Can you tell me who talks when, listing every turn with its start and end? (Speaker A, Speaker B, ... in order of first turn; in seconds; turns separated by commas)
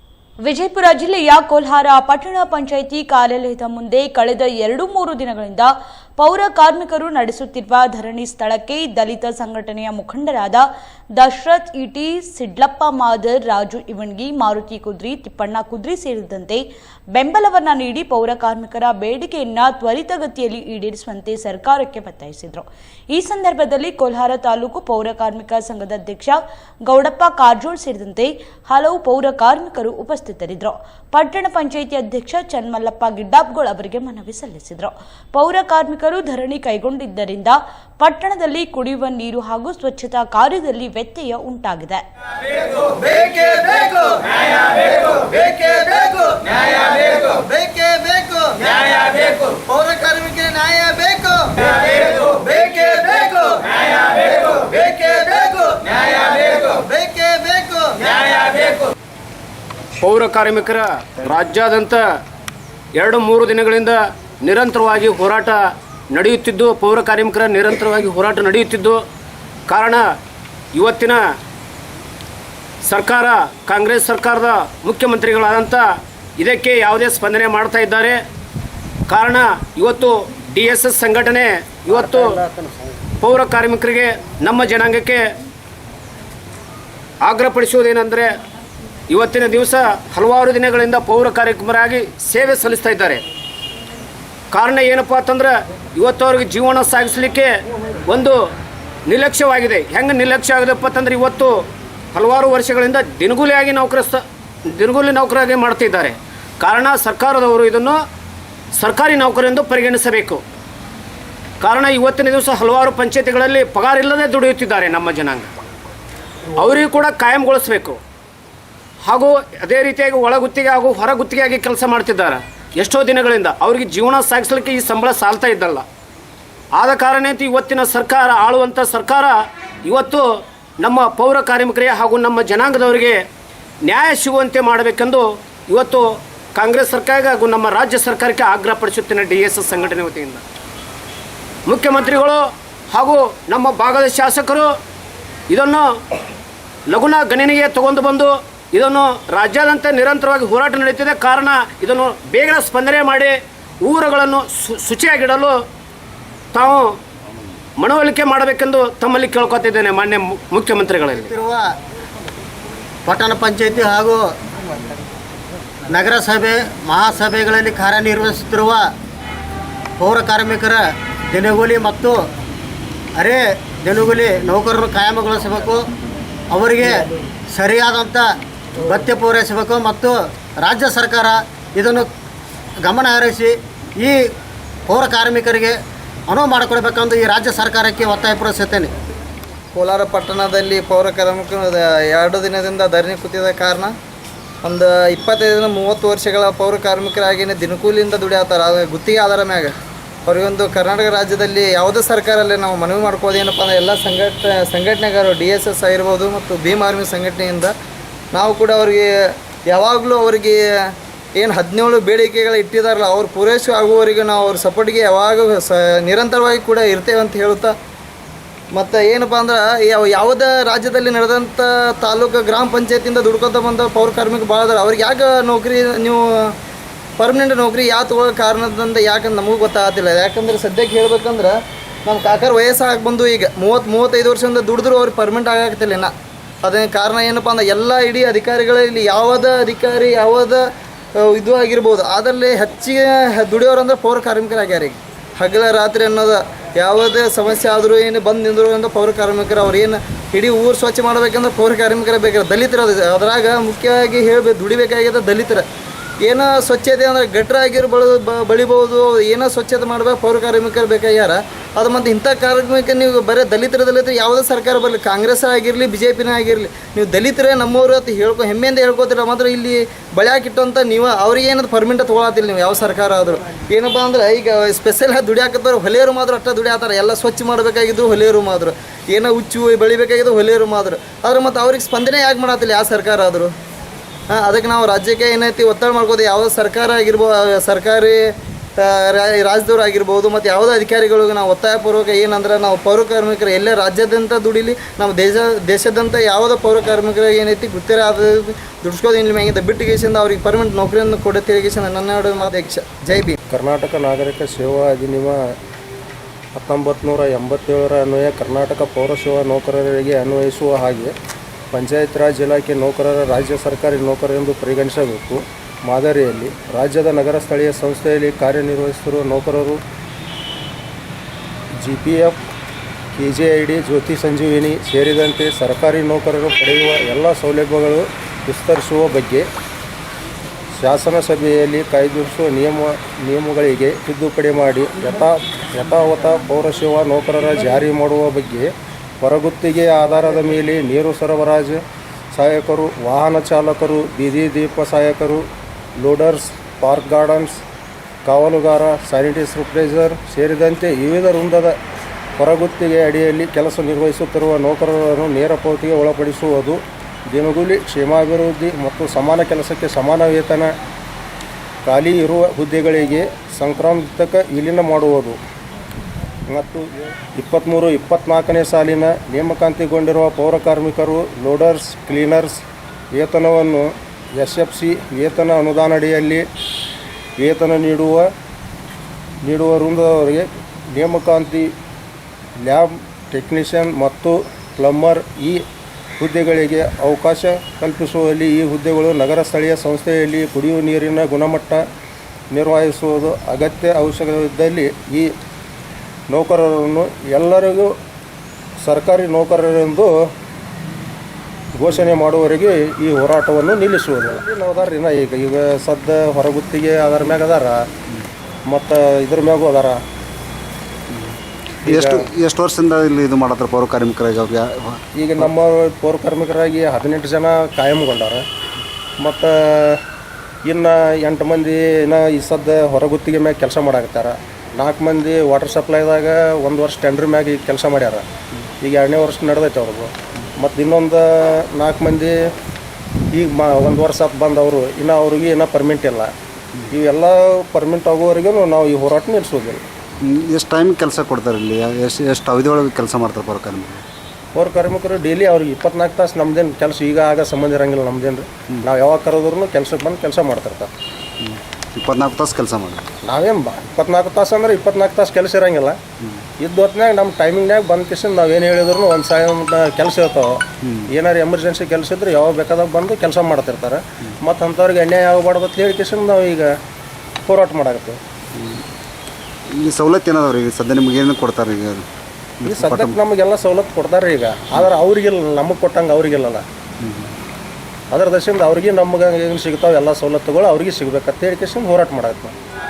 Speaker A: 0.4-42.0, Speaker B: 42.7-58.8, Speaker C: 60.0-62.0, Speaker C: 63.0-69.0, Speaker C: 69.7-70.1, Speaker C: 70.7-71.2, Speaker C: 72.8-75.9, Speaker C: 76.4-78.2, Speaker C: 79.1-82.4, Speaker D: 82.0-82.9, Speaker C: 83.2-85.2, Speaker C: 87.2-88.4, Speaker C: 89.1-93.2, Speaker C: 94.5-97.5, Speaker C: 98.1-98.4, Speaker C: 99.0-101.6, Speaker C: 102.1-108.0, Speaker C: 108.8-110.4, Speaker C: 111.6-115.5, Speaker C: 116.6-118.0, Speaker C: 119.0-125.8, Speaker C: 126.8-130.2, Speaker C: 130.8-133.2, Speaker C: 133.8-140.4, Speaker C: 141.7-144.7, Speaker C: 145.5-145.9, Speaker C: 146.9-155.6, Speaker C: 156.5-156.9, Speaker C: 157.8-161.3, Speaker D: 161.1-161.7, Speaker D: 163.1-164.2, Speaker D: 165.9-168.9, Speaker D: 170.0-172.2, Speaker D: 173.1-175.9, Speaker D: 176.5-182.1, Speaker D: 182.8-184.2, Speaker D: 184.9-185.8, Speaker D: 186.3-188.9, Speaker B: 189.8-193.9, Speaker B: 194.6-199.7, Speaker B: 200.3-207.7, Speaker B: 208.3-210.6, Speaker B: 211.4-217.8, Speaker B: 218.7-226.5, Speaker B: 227.2-240.6, Speaker B: 241.2-255.6, Speaker B: 256.2-283.5, Speaker B: 284.3-303.4, Speaker E: 303.5-305.5, Speaker E: 306.6-311.1, Speaker E: 311.7-319.8, Speaker E: 321.8-322.4, Speaker E: 323.1-329.4, Speaker E: 330.8-341.8, Speaker E: 342.3-345.4, Speaker E: 346.0-347.6, Speaker E: 348.2-351.8, Speaker E: 352.4-360.7, Speaker E: 361.8-365.4, Speaker E: 366.5-376.4, Speaker E: 377.4-378.3, Speaker E: 379.4-381.7, Speaker E: 382.6-385.6, Speaker E: 386.2-391.8, Speaker E: 392.5-395.3, Speaker E: 396.3-397.9, Speaker E: 398.8-400.1, Speaker E: 401.8-407.8, Speaker E: 408.7-410.0, Speaker F: 411.8-415.4, Speaker E: 411.9-412.2, Speaker E: 415.1-418.4, Speaker E: 419.2-420.0, Speaker E: 420.6-428.2, Speaker E: 428.8-432.3, Speaker E: 433.3-436.3, Speaker E: 436.9-439.8, Speaker F: 440.2-444.0, Speaker E: 444.6-450.9, Speaker F: 451.4-453.1, Speaker E: 453.2-456.0, Speaker E: 456.6-466.7, Speaker E: 467.4-468.2, Speaker F: 468.5-468.8, Speaker F: 469.7-472.1, Speaker F: 472.6-473.2, Speaker E: 472.7-476.6, Speaker F: 477.0-477.3, Speaker E: 478.1-482.6